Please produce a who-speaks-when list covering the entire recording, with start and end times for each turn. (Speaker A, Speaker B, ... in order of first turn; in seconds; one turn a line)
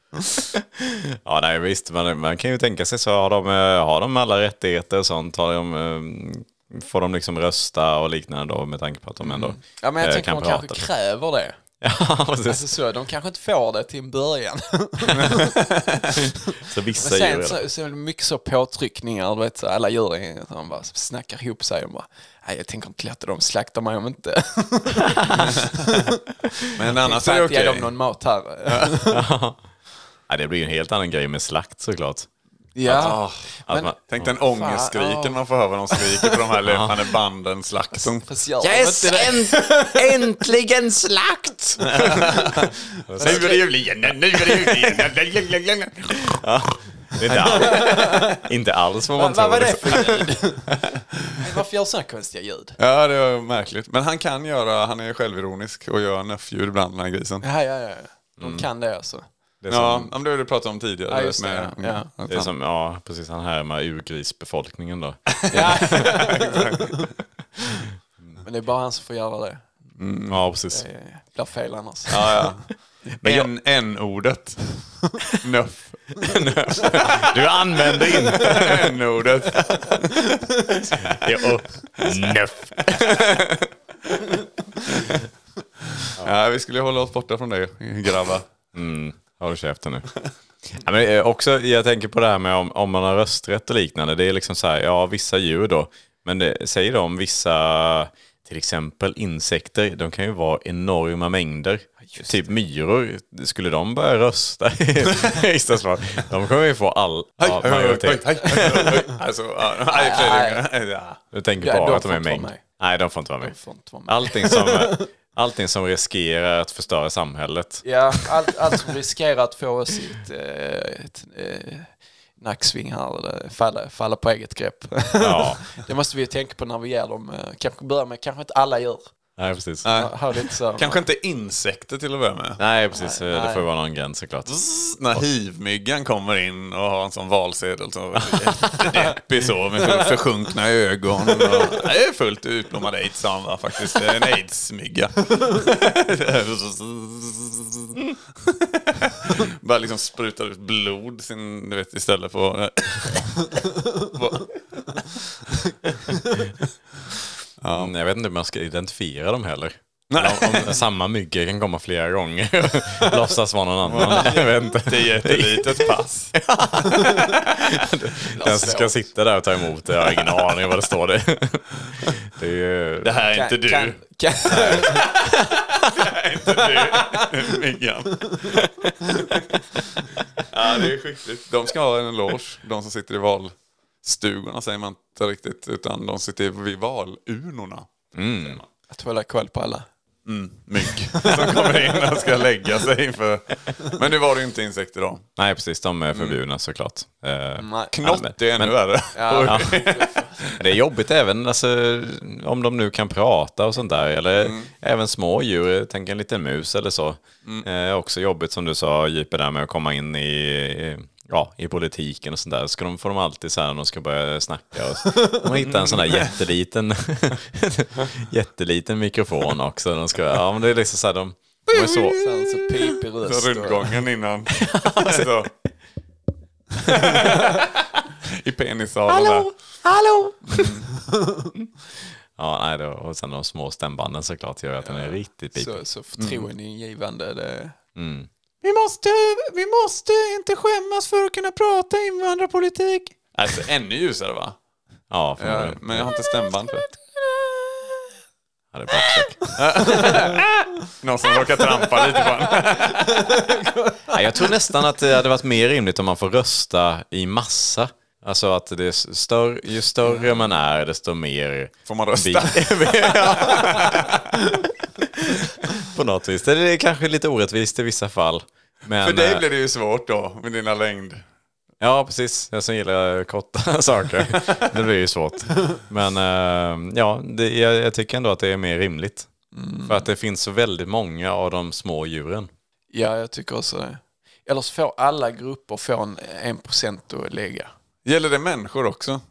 Speaker A: 0.3-10.9
Speaker B: 9.2-11.6
Speaker A: 11.8-12.6
Speaker B: 12.4-15.6
Speaker C: 15.6-16.0
Speaker A: 16.6-17.6
Speaker B: 16.9-29.2
Speaker C: 26.7-27.9
Speaker C: 28.7-29.0
Speaker A: 29.1-29.6
Speaker A: 30.3-32.3
Speaker B: 32.8-35.4
Speaker C: 32.9-33.3
Speaker A: 33.7-34.3
Speaker C: 34.1-38.3
Speaker A: 36.6-37.0
Speaker B: 38.1-40.2
Speaker A: 38.6-42.3
Speaker C: 41.9-46.4
Speaker A: 43.1-43.7
Speaker B: 43.2-43.7
Speaker A: 44.3-45.1
Speaker A: 46.2-50.2
Speaker B: 47.3-48.4
Speaker B: 49.1-50.8
Speaker B: 51.4-52.8
Speaker C: 52.8-57.4
Speaker B: 57.4-59.2
Speaker A: 58.4-58.6
Speaker A: 59.6-60.1
Speaker C: 59.7-62.5
Speaker B: 61.1-62.1
Speaker A: 62.3-66.1
Speaker C: 65.4-67.1
Speaker B: 65.5-67.0
Speaker B: 68.4-69.7
Speaker C: 70.0-70.4
Speaker A: 70.3-70.8
Speaker B: 70.7-72.5
Speaker C: 72.1-76.3
Speaker A: 76.2-78.9
Speaker C: 78.2-81.1
Speaker A: 80.9-83.7
Speaker C: 82.8-83.5
Speaker C: 84.8-85.2
Speaker C: 85.9-88.5
Speaker A: 88.7-90.1
Speaker A: 90.7-109.0
Speaker B: 102.0-102.3
Speaker C: 107.4-111.2
Speaker B: 109.9-110.6
Speaker A: 111.3-118.3
Speaker B: 111.6-112.6
Speaker B: 113.4-115.1
Speaker B: 117.8-129.1
Speaker A: 125.2-125.6
Speaker A: 129.4-129.9
Speaker C: 129.8-130.1
Speaker B: 129.8-131.0
Speaker C: 130.8-132.6
Speaker A: 132.6-134.6
Speaker B: 132.9-133.7
Speaker C: 134.5-154.6
Speaker C: 157.6-157.9
Speaker A: 157.7-173.2
Speaker C: 160.1-160.8
Speaker C: 163.8-166.4
Speaker B: 168.2-169.0
Speaker C: 173.0-179.6
Speaker B: 173.3-175.2
Speaker A: 174.5-174.8
Speaker B: 176.7-177.2
Speaker C: 180.4-187.9
Speaker A: 188.1-188.6
Speaker B: 188.9-189.8
Speaker C: 190.2-195.2
Speaker B: 191.1-192.1
Speaker A: 195.4-198.7
Speaker C: 196.1-196.4
Speaker B: 197.6-197.9
Speaker C: 197.9-200.6
Speaker B: 199.1-200.6
Speaker A: 199.4-199.8
Speaker A: 200.6-222.4
Speaker C: 204.4-204.7
Speaker C: 215.6-216.3
Speaker B: 221.7-224.0
Speaker C: 223.2-225.5
Speaker A: 224.6-225.3
Speaker C: 226.8-229.6
Speaker A: 229.1-230.8
Speaker C: 230.5-230.9
Speaker B: 231.1-231.5
Speaker A: 232.3-235.8
Speaker B: 234.8-237.8
Speaker C: 236.2-236.5
Speaker A: 237.9-238.3
Speaker B: 239.4-239.8
Speaker B: 240.4-243.1
Speaker C: 243.3-244.6
Speaker A: 245.1-246.1
Speaker C: 245.4-246.9
Speaker B: 246.9-248.0
Speaker A: 248.7-249.5
Speaker B: 249.0-250.3
Speaker C: 249.6-253.4
Speaker B: 251.8-254.5
Speaker A: 254.1-264.1
Speaker C: 261.9-264.4
Speaker A: 265.2-269.4
Speaker C: 269.0-271.2
Speaker A: 271.8-279.3
Speaker B: 279.5-280.1
Speaker A: 279.9-282.5
Speaker B: 282.9-287.7
Speaker C: 288.0-289.2